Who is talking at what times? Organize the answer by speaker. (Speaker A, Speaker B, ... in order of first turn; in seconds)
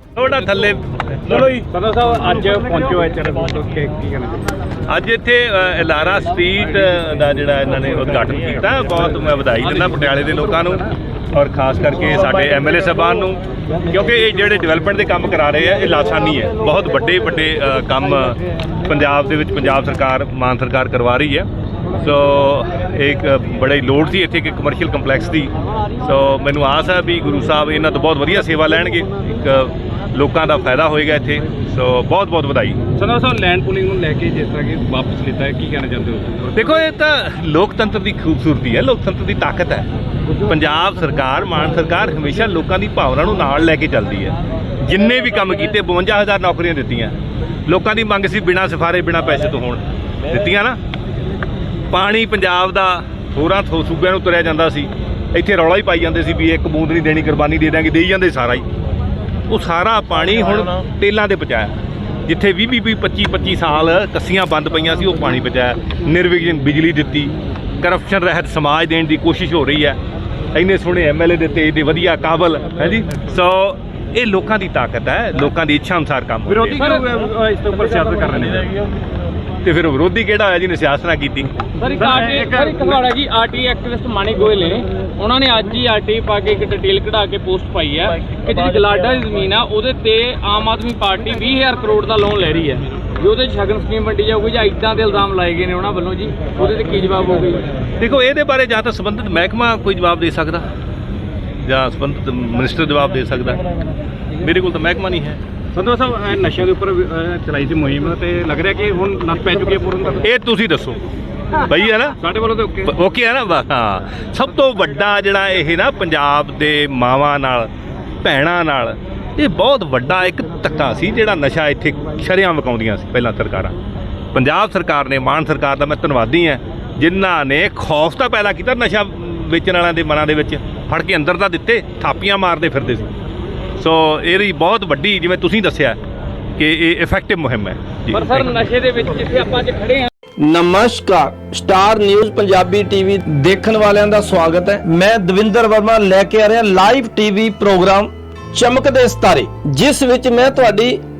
Speaker A: 0.2-1.6, 4.9-21.5, 22.0-32.8, 36.5-39.9, 40.5-47.1, 47.7-50.8, 51.9-58.7, 59.5-61.7, 62.3-70.0, 70.5-76.9, 79.6-81.5, 98.0-100.7, 101.7-103.6, 104.4-105.4, 110.2-111.0, 111.7-112.2, 112.8-117.7, 118.2-123.7, 124.3-133.1, 133.8-136.0, 136.6-138.5
Speaker B: 1.6-4.5, 9.8-10.5, 33.0-36.7, 76.5-78.7, 82.0-83.2, 105.7-110.2, 112.2-112.9
Speaker C: 81.8-97.7, 138.1-140.1
Speaker D: 140.4-151.0